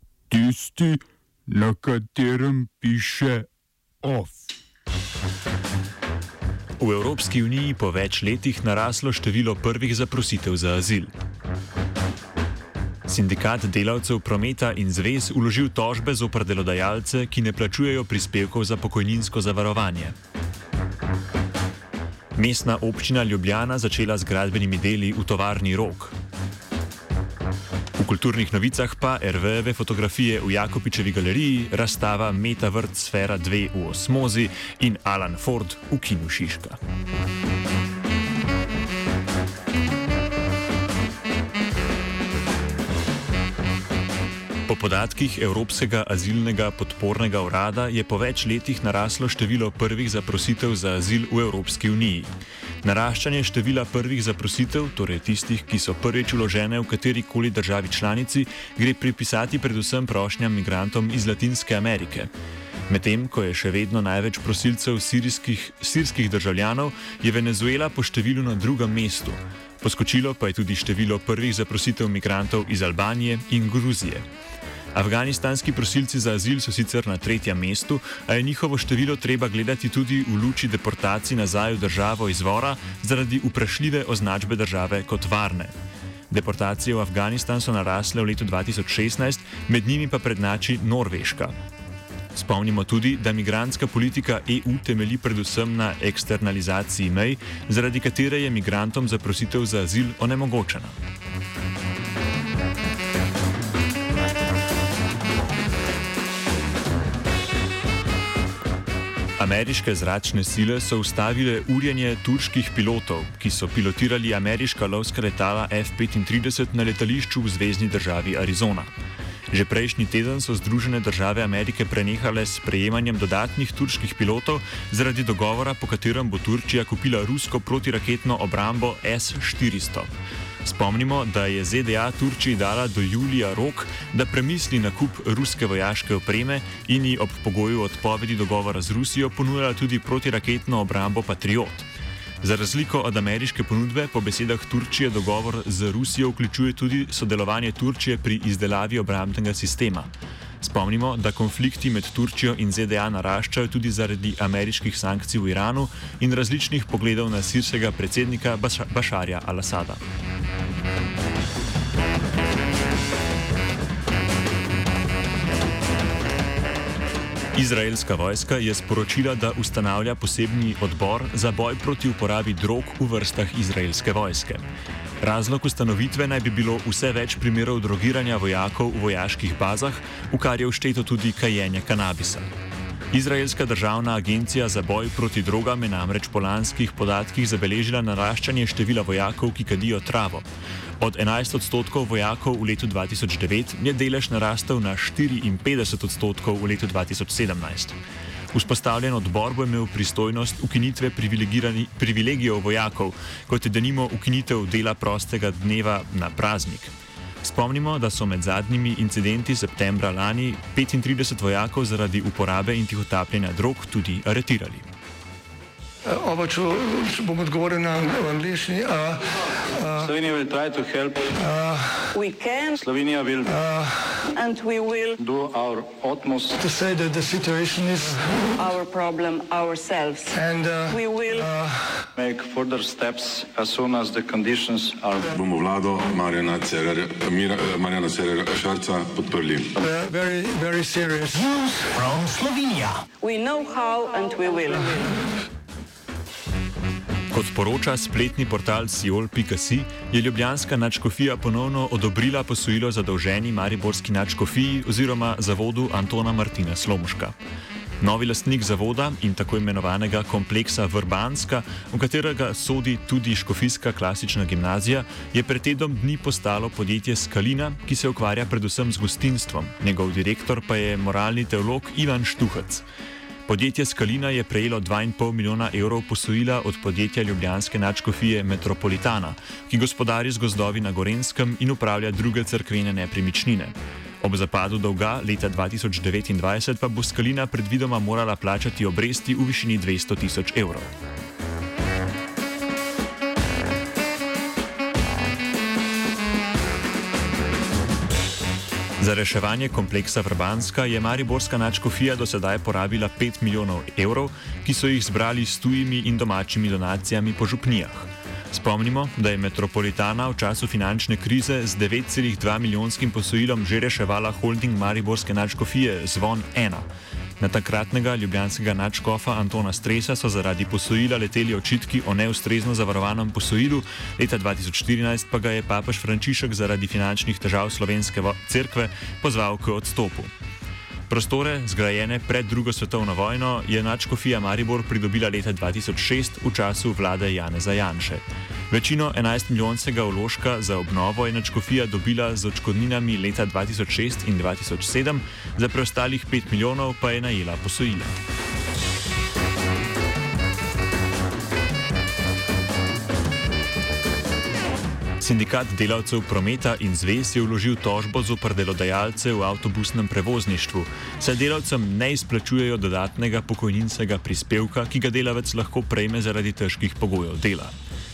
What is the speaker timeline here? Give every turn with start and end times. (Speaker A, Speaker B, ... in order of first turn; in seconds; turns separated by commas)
Speaker A: 0.3-3.5, Speaker A: 4.0-4.4, Speaker B: 6.8-11.1, Speaker B: 13.1-20.1, Speaker B: 22.4-26.1, Speaker B: 28.0-36.8, Speaker B: 44.7-52.3, Speaker B: 52.8-62.3, Speaker B: 62.9-74.2, Speaker B: 74.9-85.7, Speaker B: 86.3-91.5, Speaker B: 92.3-101.0, Speaker B: 109.4-118.9, Speaker B: 119.5-130.1, Speaker B: 130.6-141.8, Speaker B: 142.4-150.1, Speaker B: 150.6-160.0, Speaker B: 167.5-174.6, Speaker B: 175.2-182.5, Speaker B: 183.1-190.5, Speaker B: 191.0-198.0, Speaker B: 198.5-206.9, Speaker B: 207.4-214.9, Speaker C: 216.1-220.1, Speaker D: 220.0-221.4, Speaker C: 221.4-222.2, Speaker E: 222.1-222.8, Speaker D: 222.8-223.6, Speaker C: 223.5-224.2, Speaker E: 224.2-225.2, Speaker D: 225.2-226.6, Speaker C: 226.6-228.7, Speaker E: 228.6-230.4, Speaker C: 230.3-232.1, Speaker E: 230.9-231.5, Speaker D: 232.1-235.3, Speaker F: 235.3-239.7, Speaker C: 239.8-242.4, Speaker E: 243.2-245.2, Speaker B: 247.3-257.3, Speaker B: 258.0-272.8, Speaker B: 273.5-290.9, Speaker B: 299.0-316.9, Speaker B: 317.4-330.3, Speaker B: 331.1-348.1, Speaker B: 355.2-367.7